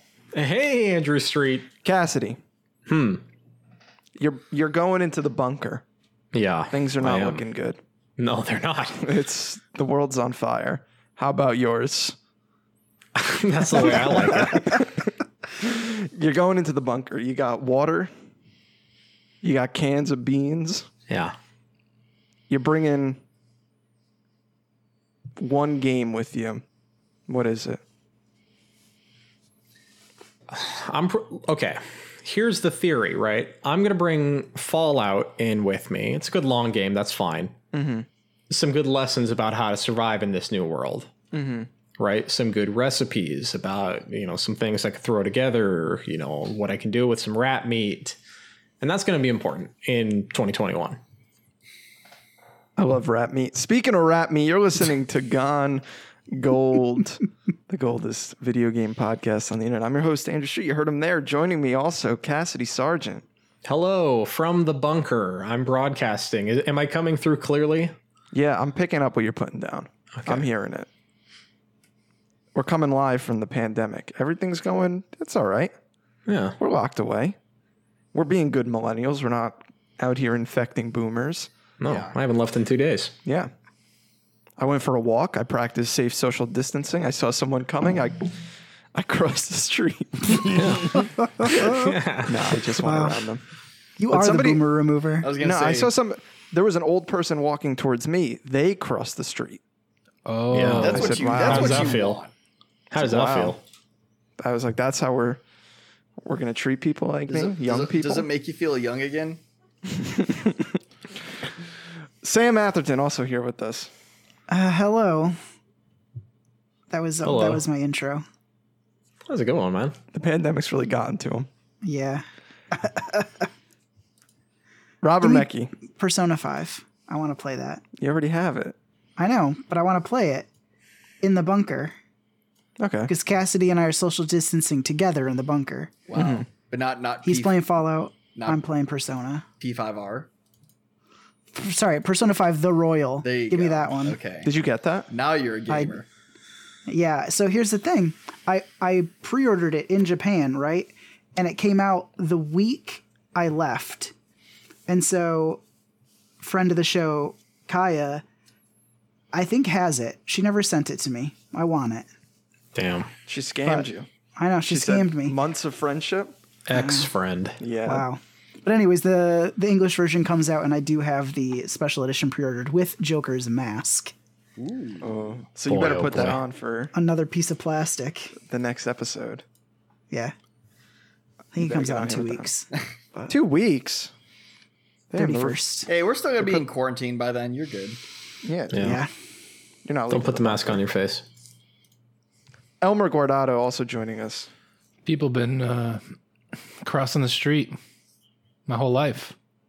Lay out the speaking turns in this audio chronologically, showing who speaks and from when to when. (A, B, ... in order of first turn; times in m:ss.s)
0:00.3-0:01.7 A
0:01.8-0:02.4 B
0:02.9-0:03.2 A
0:04.2-0:05.8 B
0:06.3-0:07.4 A
0:06.7-0:07.8 B
0:08.2-0:09.0 A
0:09.0-0:12.2 B
0:13.2-0:14.8 A
0:13.8-0:15.0 B
0:15.6-0:18.1 B
0:19.4-0:20.9 B
0:21.1-0:21.3 A
0:22.5-0:23.2 B
0:25.4-0:26.6 B
0:27.3-0:27.8 B
0:30.5-0:37.6 A
0:37.7-0:38.1 B
0:38.5-0:41.1 A
0:41.3-0:41.7 B
0:42.0-0:48.2 A
0:48.8-0:51.0 A
0:52.8-1:03.2 B
1:03.6-1:07.9 A
1:08.3-1:10.9 B
1:10.1-1:10.4 A
1:12.5-1:15.7 B
1:16.3-1:16.6 A
1:16.6-1:17.4 B
1:18.1-1:21.5 B
1:21.8-1:23.1 A
1:21.9-1:22.1 C
1:23.2-1:23.5 B
1:24.6-1:28.3 B
1:28.9-1:31.7 B
1:30.4-1:32.6 A
1:31.4-1:31.7 D
1:32.2-1:33.4 B
1:32.8-1:33.3 D
1:34.0-1:35.3 D
1:34.1-1:34.6 B
1:35.2-1:35.9 C
1:35.4-1:39.6 B
1:40.2-1:41.1 E
1:40.5-1:42.2 A
1:40.7-1:42.3 C
1:40.8-1:41.9 B
1:42.9-1:43.6 B
1:42.9-1:43.6 A
1:44.4-1:45.4 B
1:46.2-1:48.3 B
1:47.3-1:49.4 C
1:49.9-1:50.8 B
1:52.2-1:53.9 B
1:54.5-1:55.4 D
1:56.9-1:58.2 D
1:57.2-1:57.6 A
1:59.2-2:00.0 A
2:00.1-2:01.5 B
2:01.8-2:03.5 D
2:05.0-2:05.7 B
2:05.2-2:07.8 D
2:08.0-2:08.8 B
2:09.2-2:10.5 D
2:11.2-2:12.0 D
2:12.8-2:13.1 B
2:13.1-2:15.9 D
2:16.1-2:17.6 C
2:16.1-2:16.5 B
2:17.2-2:19.4 D
2:18.3-2:18.6 C
2:19.6-2:20.3 C
2:21.5-2:24.2 D
2:23.2-2:24.5 C
2:24.4-2:25.1 B
2:25.1-2:26.1 C
2:25.7-2:26.0 D
2:26.9-2:34.1 D
2:34.9-2:35.6 D
2:36.4-2:38.2 D
2:39.3-2:42.1 D
2:42.7-2:43.1 A
2:43.2-2:44.1 B
2:43.6-2:45.4 D
2:44.7-2:46.3 B
2:46.7-2:47.6 A
2:46.7-2:47.1 D
2:47.6-2:48.1 B
2:47.8-2:54.1 D
2:54.6-2:55.2 C
2:55.0-2:56.9 B
2:55.7-2:56.4 A
2:56.9-2:58.3 D
2:58.4-2:59.4 B
3:01.5-3:02.7 D
3:01.6-3:02.5 B
3:03.2-3:04.1 B
3:05.1-3:05.6 B
3:05.1-3:05.9 D
3:05.9-3:08.0 C
3:08.4-3:09.0 B
3:08.7-3:09.0 A
3:08.8-3:09.1 D
3:09.8-3:10.8 B
3:10.1-3:11.2 A
3:12.8-3:14.5 B
3:15.0-3:16.0 E
3:16.8-3:17.8 E
3:18.7-3:19.3 E